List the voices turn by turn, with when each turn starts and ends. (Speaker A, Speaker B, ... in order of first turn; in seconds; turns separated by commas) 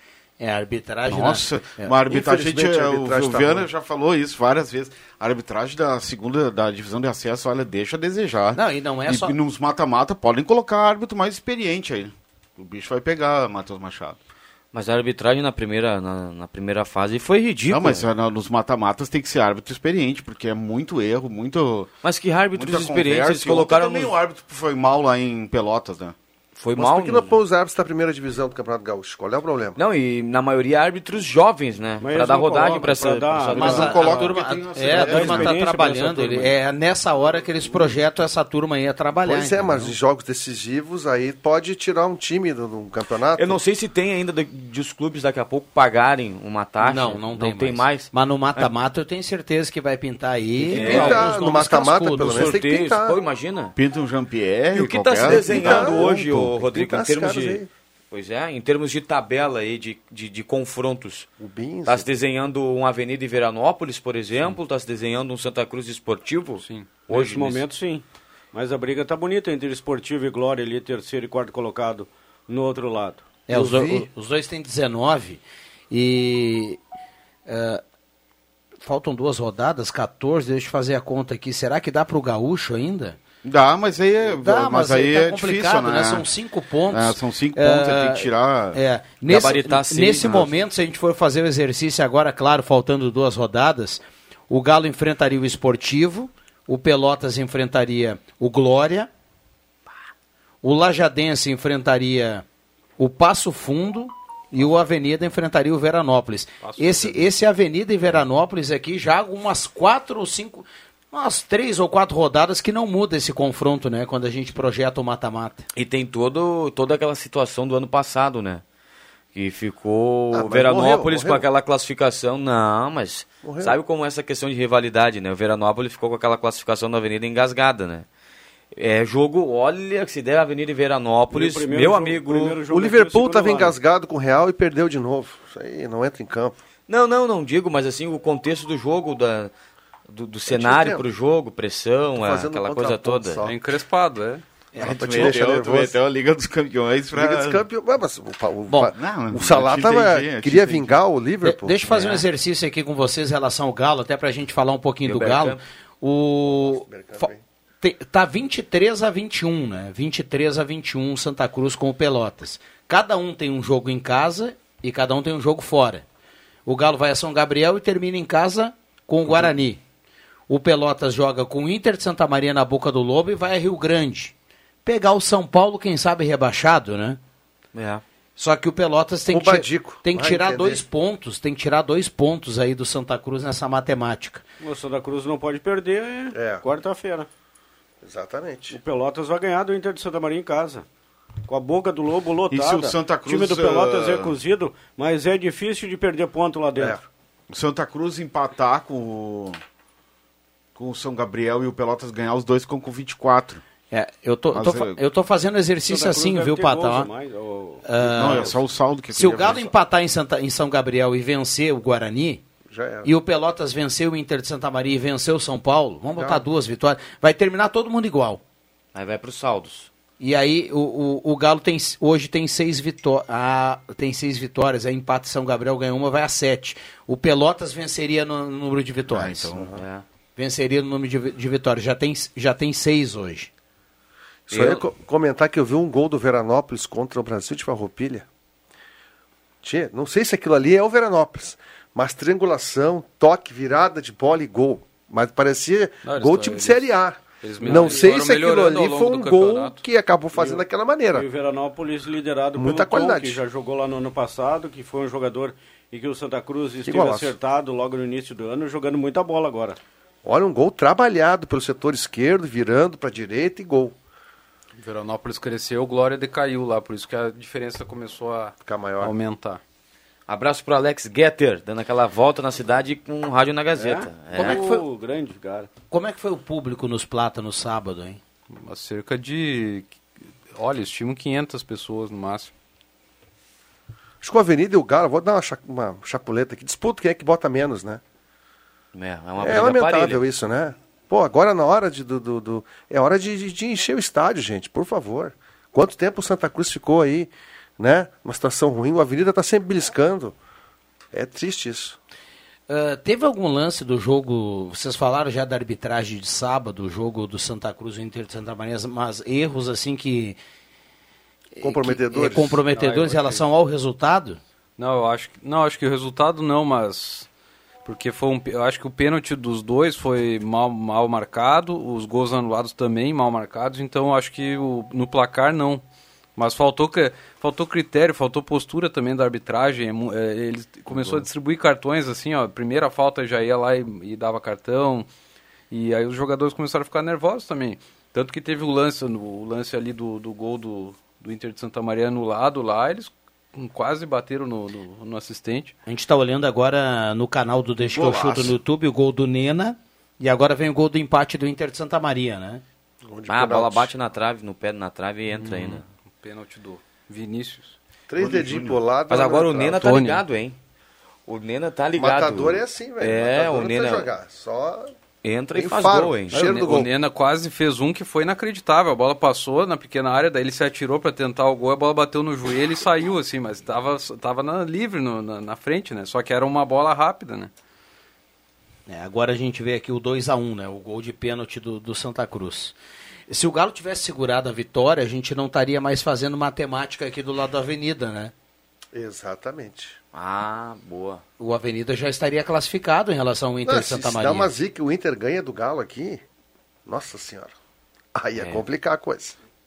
Speaker A: 0.4-1.9, Speaker B: 1.1-14.2, Speaker C: 2.1-3.7, Speaker A: 8.6-9.3, Speaker D: 14.7-18.1, Speaker B: 17.7-21.9, Speaker D: 22.0-24.1, Speaker B: 22.5-26.1, Speaker D: 26.6-27.4, Speaker C: 26.8-29.8, Speaker D: 29.8-34.3, Speaker E: 32.0-34.2, Speaker B: 33.5-35.5, Speaker A: 33.6-40.0, Speaker E: 34.9-36.5, Speaker C: 39.2-43.6, Speaker D: 43.4-48.7, Speaker A: 46.8-52.5, Speaker D: 50.7-51.3, Speaker C: 50.7-53.2, Speaker D: 52.2-53.7, Speaker B: 53.8-56.1, Speaker D: 54.7-61.3, Speaker C: 55.2-57.7, Speaker C: 61.4-62.1, Speaker D: 61.9-67.6, Speaker F: 66.6-67.0, Speaker E: 67.1-73.2, Speaker A: 73.5-76.8, Speaker C: 73.5-74.1, Speaker A: 77.5-77.8, Speaker A: 78.8-83.2, Speaker B: 83.4-86.3, Speaker A: 84.3-99.1, Speaker B: 86.9-88.8, Speaker D: 89.3-90.5, Speaker A: 100.6-102.5, Speaker A: 103.0-115.7, Speaker F: 106.6-107.3, Speaker D: 115.8-118.6, Speaker D: 119.3-128.1, Speaker C: 120.3-121.5, Speaker C: 123.4-123.8, Speaker D: 128.8-132.6, Speaker E: 131.3-133.8, Speaker C: 132.7-136.6, Speaker D: 136.9-139.5, Speaker D: 140.1-143.4, Speaker C: 140.5-141.0, Speaker C: 142.2-143.6, Speaker F: 143.4-144.4, Speaker C: 144.8-145.9, Speaker B: 144.8-147.6, Speaker A: 144.8-145.3, Speaker C: 147.1-151.8, Speaker B: 148.9-151.0, Speaker A: 151.4-157.3, Speaker D: 151.9-152.2, Speaker D: 155.1-155.6, Speaker C: 156.4-157.4, Speaker A: 157.8-166.0, Speaker A: 166.7-169.8, Speaker A: 170.5-174.3, Speaker A: 174.8-177.2, Speaker D: 177.7-178.0, Speaker A: 178.4-184.4, Speaker C: 179.3-180.8, Speaker E: 184.6-187.3, Speaker C: 186.3-186.6, Speaker C: 188.0-188.8, Speaker E: 188.7-190.8, Speaker E: 191.5-197.0, Speaker B: 192.5-194.3, Speaker B: 197.5-199.6, Speaker B: 200.8-203.6, Speaker A: 203.9-207.1, Speaker B: 204.5-205.0, Speaker E: 205.8-208.5, Speaker A: 207.8-208.6, Speaker B: 208.1-209.7, Speaker A: 209.1-212.4, Speaker C: 212.7-213.1, Speaker A: 213.1-218.4, Speaker C: 216.2-216.4, Speaker D: 218.9-219.9, Speaker A: 220.2-229.5, Speaker B: 229.1-229.8, Speaker D: 229.8-230.0, Speaker A: 230.4-233.5, Speaker D: 234.5-234.8, Speaker C: 234.5-238.3, Speaker C: 239.6-251.3, Speaker F: 246.0-246.8, Speaker F: 247.4-249.8, Speaker E: 247.6-248.1, Speaker E: 250.3-259.8, Speaker C: 252.6-253.4, Speaker C: 256.9-257.4, Speaker C: 260.2-263.9, Speaker F: 264.8-269.6, Speaker C: 268.6-269.1, Speaker D: 270.3-274.6, Speaker E: 273.8-275.7, Speaker A: 274.3-274.8, Speaker A: 275.9-278.2, Speaker F: 278.6-279.9, Speaker F: 280.5-282.5, Speaker C: 284.2-288.0, Speaker D: 288.9-290.2, Speaker C: 289.4-300.4, Speaker C: 301.1-302.0, Speaker A: 302.7-310.4, Speaker A: 311.6-314.4, Speaker C: 311.6-312.6, Speaker F: 312.6-313.4, Speaker F: 314.8-317.3, Speaker F: 317.9-325.8, Speaker F: 326.4-335.1, Speaker C: 330.9-331.2, Speaker F: 335.7-345.7, Speaker A: 345.9-352.6, Speaker B: 347.8-348.6, Speaker C: 353.1-353.9, Speaker D: 353.3-355.9, Speaker F: 355.3-357.7, Speaker C: 358.1-359.8, Speaker B: 358.2-358.8, Speaker D: 359.1-360.6, Speaker F: 359.7-360.2, Speaker D: 361.3-364.1, Speaker C: 362.0-364.9, Speaker D: 365.2-366.9, Speaker C: 365.6-366.9, Speaker F: 366.3-377.5, Speaker A: 378.9-382.8, Speaker A: 383.3-388.3, Speaker C: 388.9-390.0, Speaker D: 390.1-391.2, Speaker A: 391.4-394.5, Speaker C: 393.6-396.2, Speaker C: 396.9-397.5, Speaker C: 398.1-399.4, Speaker D: 398.4-398.6